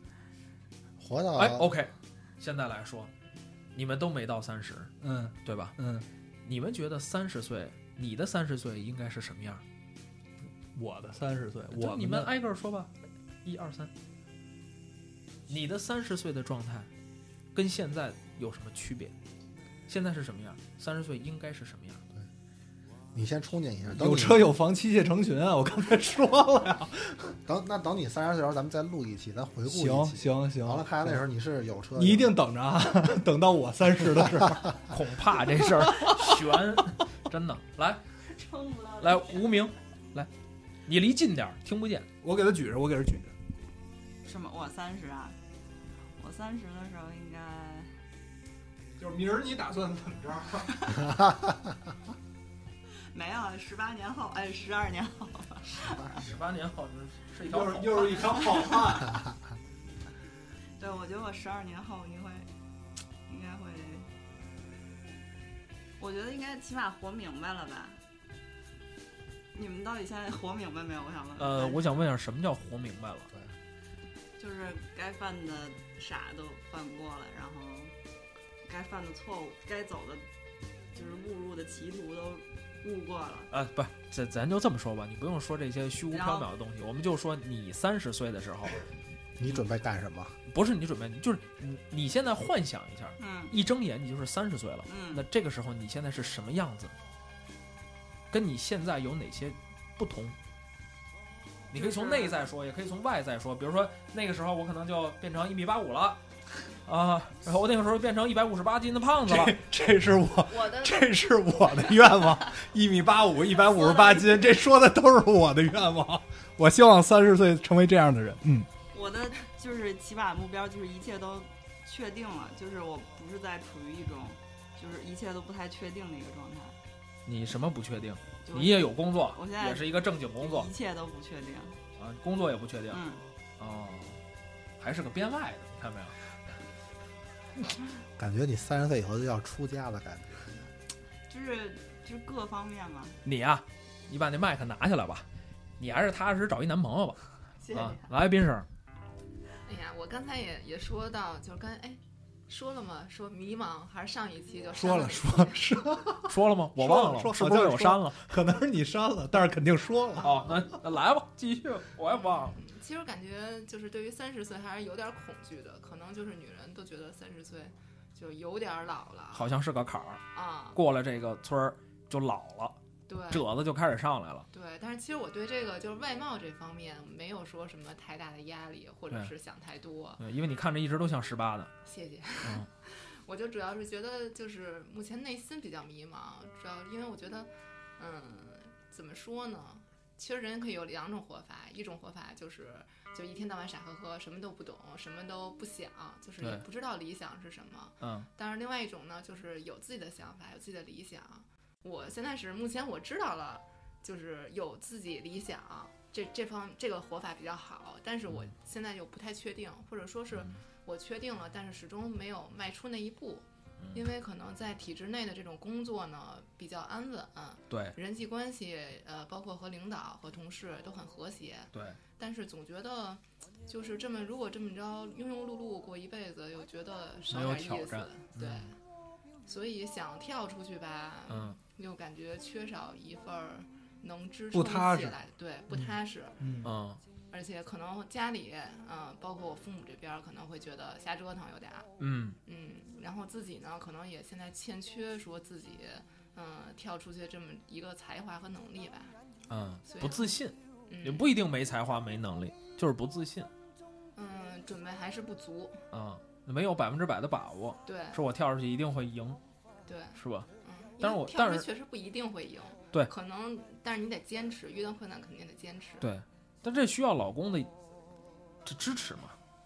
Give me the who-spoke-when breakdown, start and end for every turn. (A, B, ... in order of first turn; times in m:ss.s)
0:01.0-0:01.8 A
0:01.4-0:03.1 B
0:03.7-0:04.9 B
0:05.0-0:06.1 C
0:05.4-0:05.8 B
0:06.4-0:09.6 B
0:10.7-0:12.3 C
0:11.7-0:12.9 B
0:13.4-0:13.9 B
0:15.5-0:16.9 B
0:17.5-0:19.1 B
0:19.9-0:22.0 B
0:23.1-0:24.6 A
0:23.9-0:27.4 C
0:27.4-0:32.4 A
0:29.7-0:31.2 C
0:32.0-0:34.8 C
0:34.9-0:38.0 B
0:38.2-0:39.7 D
0:39.0-0:40.3 B
0:40.9-0:42.1 B
0:42.2-0:43.3 C
0:44.2-0:45.4 D
0:46.2-0:47.9 D
0:49.0-0:50.9 C
0:51.2-0:51.5 A
0:53.1-0:56.2 D
0:56.1-0:58.4 B
0:57.4-0:59.2 C
0:58.4-0:58.9 D
1:00.8-1:02.5 D
1:03.3-1:04.1 D
1:06.0-1:08.0 D
1:09.5-1:12.0 D
1:11.4-1:13.3 B
1:14.4-1:17.9 D
1:18.6-1:20.2 D
1:20.9-1:23.5 D
1:23.5-1:28.8 B
1:26.1-1:26.5 D
1:29.4-1:30.4 A
1:30.5-1:37.0 B
1:33.2-1:33.6 D
1:34.9-1:35.3 D
1:38.3-1:40.4 B
1:41.7-1:46.2 B
1:41.8-1:42.4 D
1:46.8-1:49.6 B
1:49.3-1:58.7 C
1:50.6-1:50.9 D
1:53.6-1:54.5 D
1:58.9-2:06.8 D
2:07.3-2:10.7 B
2:08.4-2:11.8 D
2:12.0-2:13.0 B
2:12.9-2:13.2 D
2:13.6-2:14.2 B
2:14.8-2:16.2 B
2:18.2-2:20.7 A
2:21.3-2:23.2 D
2:23.2-2:25.3 B
2:25.8-2:28.7 B
2:27.6-2:28.1 D
2:29.6-2:35.8 E
2:34.8-2:40.6 C
2:36.3-2:38.3 B
2:40.2-2:42.6 B
2:42.1-2:49.6 E
2:49.3-2:52.8 B
2:50.3-2:50.8 E
2:53.1-2:53.5 E
2:53.3-2:54.5 B
2:54.5-3:00.2 E
3:00.2-3:01.7 B
3:01.8-3:48.8 E
3:02.4-3:02.7 B
3:16.4-3:16.6 B
3:18.0-3:18.3 B
3:30.3-3:30.6 B
3:33.8-3:34.1 B
3:37.7-3:38.0 B
3:41.7-3:42.0 B
3:47.3-3:48.7 B
3:49.4-3:56.4 E
3:51.3-3:51.6 B
3:54.5-3:55.2 C
3:55.7-3:56.7 C
3:56.6-3:57.0 B
3:57.3-4:01.9 E
4:02.0-4:02.4 B
4:02.4-4:09.2 E
4:09.5-4:13.5 B
4:09.8-4:11.3 E
4:14.1-4:15.8 E
4:15.9-4:19.4 B
4:17.8-4:18.2 E
4:19.8-4:26.1 E
4:20.1-4:20.5 B
4:21.0-4:21.7 B
4:26.0-4:27.7 B
4:28.6-4:29.4 B